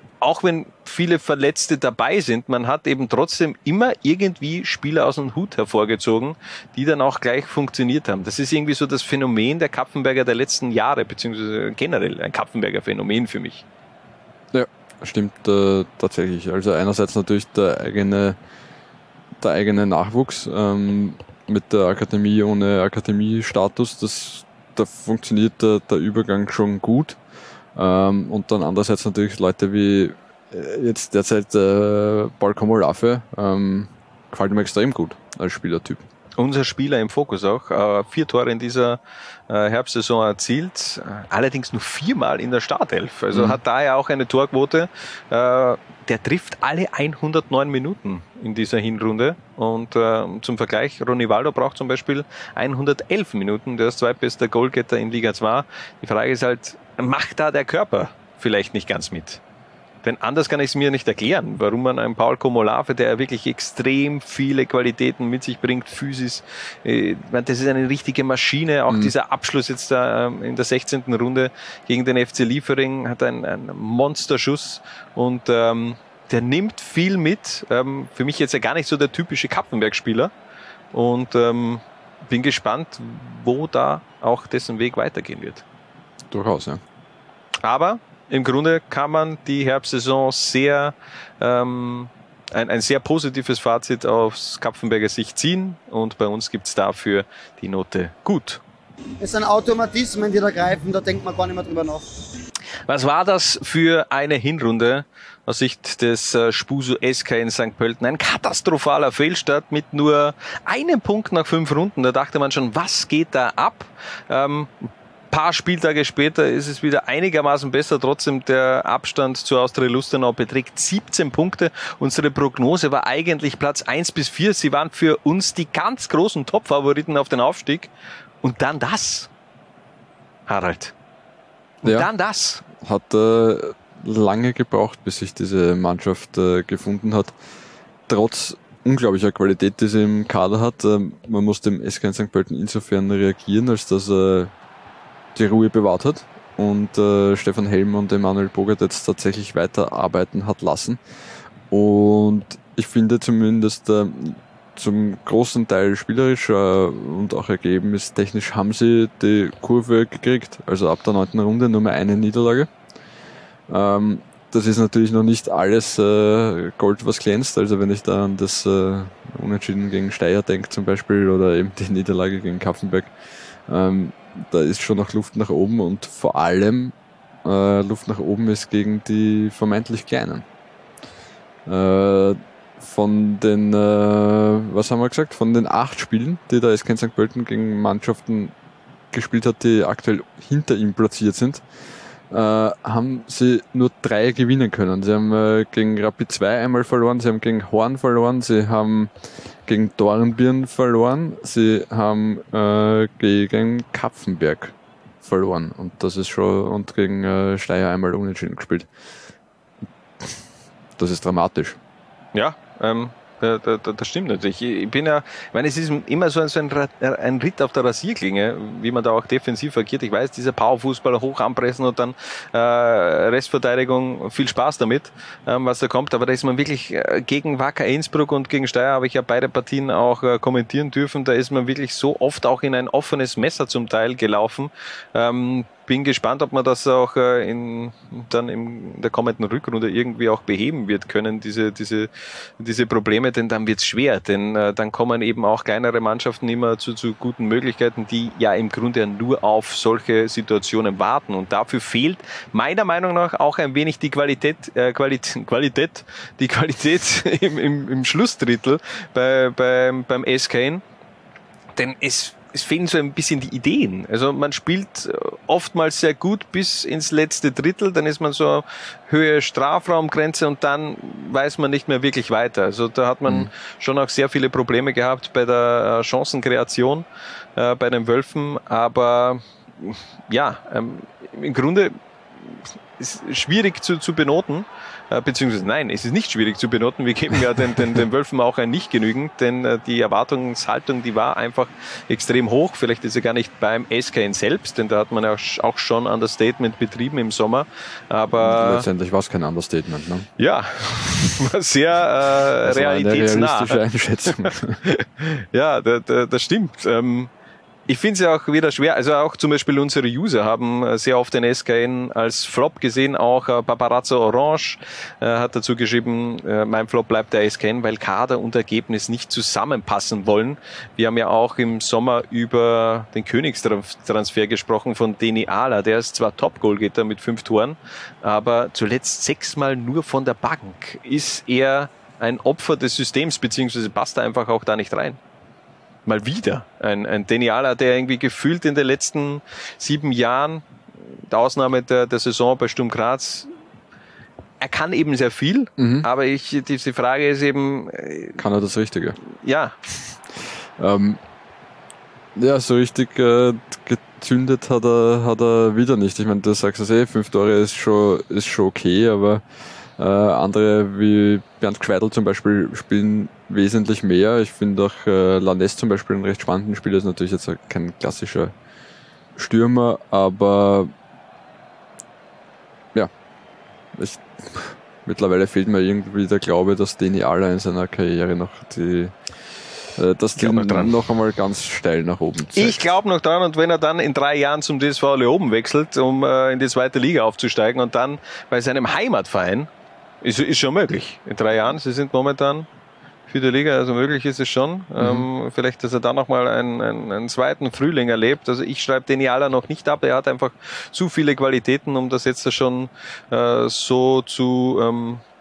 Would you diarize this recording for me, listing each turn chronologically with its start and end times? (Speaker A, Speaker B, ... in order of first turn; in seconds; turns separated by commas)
Speaker A: 0.2-13.6, Speaker B: 14.5-18.4, Speaker B: 19.4-27.2, Speaker B: 27.7-36.0, Speaker A: 36.4-59.4, Speaker B: 43.3-43.6, Speaker A: 60.0-80.3, Speaker A: 80.9-85.6, Speaker B: 86.3-86.8, Speaker A: 87.6-98.6, Speaker C: 99.2-102.0, Speaker A: 102.9-114.7, Speaker A: 115.3-127.9, Speaker A: 128.4-129.3, Speaker A: 130.5-130.9, Speaker A: 131.8-132.6, Speaker B: 132.7-137.3, Speaker B: 138.1-144.5, Speaker B: 145.3-151.0, Speaker B: 151.7-162.7, Speaker B: 163.7-173.1, Speaker B: 173.7-180.4, Speaker B: 181.7-188.5, Speaker B: 189.1-191.6, Speaker B: 192.3-199.1, Speaker B: 199.6-208.9, Speaker B: 211.0-211.8, Speaker A: 212.3-260.8, Speaker A: 261.8-281.9, Speaker A: 283.0-298.9, Speaker B: 298.4-300.3, Speaker A: 300.4-303.8, Speaker B: 302.6-304.8, Speaker A: 304.9-307.3, Speaker A: 307.9-335.2, Speaker A: 336.1-340.6, Speaker A: 341.3-343.5, Speaker A: 344.6-348.4, Speaker B: 345.8-346.1, Speaker B: 348.4-349.2, Speaker A: 349.4-349.8, Speaker B: 350.8-351.2, Speaker B: 352.3-359.4, Speaker B: 360.0-368.5, Speaker B: 369.4-370.9, Speaker B: 373.9-379.1, Speaker B: 379.9-382.8, Speaker A: 380.4-380.9, Speaker A: 382.5-389.7, Speaker A: 390.2-392.7, Speaker A: 393.3-405.2, Speaker B: 395.0-395.3